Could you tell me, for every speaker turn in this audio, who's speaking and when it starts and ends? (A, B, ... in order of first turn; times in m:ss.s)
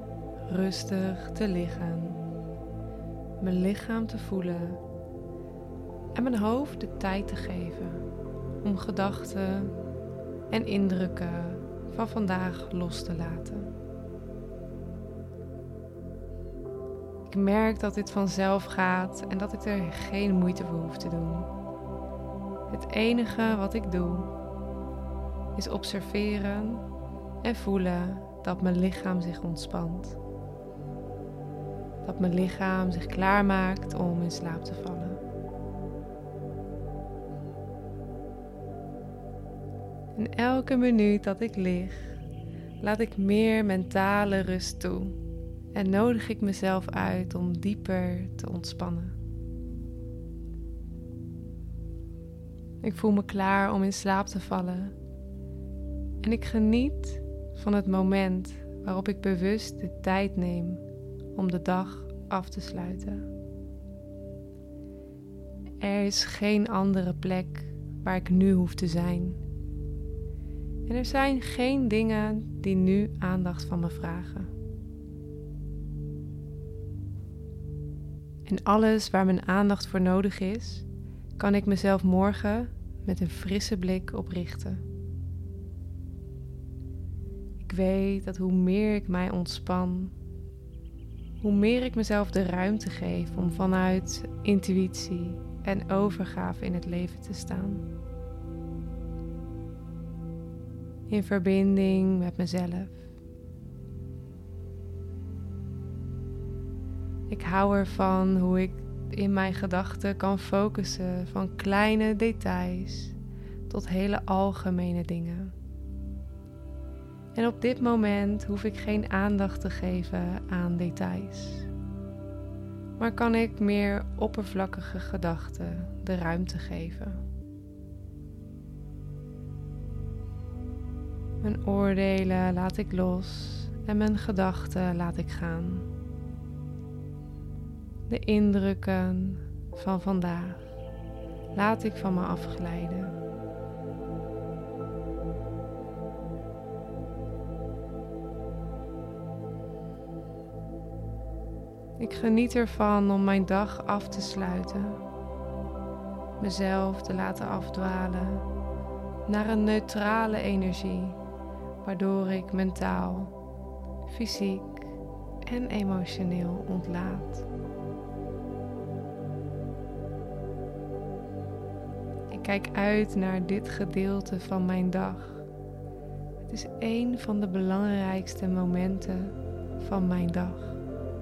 0:00.5-0:02.2 A
0:03.4-0:04.8 A
0:06.2-0:08.0 A
0:08.6-0:09.8 A
0:10.5-0:13.7 A
0:17.3-0:21.5 A
0:22.7-0:24.3 A
0:25.6-0:26.8 A
0:27.4-0:30.2 A
0:32.0-0:35.2 A
0:40.1-0:42.2 A
0:42.8-0:45.2 A
0:45.7-0:49.2 A
0:52.8-0:55.0 A
0:56.2-1:00.8 A
1:01.4-1:03.3 A
1:05.8-1:09.4 A
1:10.9-1:14.5 A
1:18.4-1:20.9 A
1:21.4-1:24.8 A
1:27.6-1:30.1 A
1:31.4-1:37.8 A
1:41.1-1:43.0 A
1:47.3-1:53.2 A
1:53.7-1:55.5 A
1:57.4-2:01.7 A
2:03.0-2:07.2 A
2:11.4-2:15.9 A
2:18.1-2:20.8 A
2:21.5-2:23.2 A
2:32.0-2:35.0 A
2:36.4-2:38.5 A
2:39.3-2:41.2 A
2:41.8-2:43.3 A
2:44.1-2:47.5 A
2:52.3-2:55.5 A
2:56.4-3:00.8 A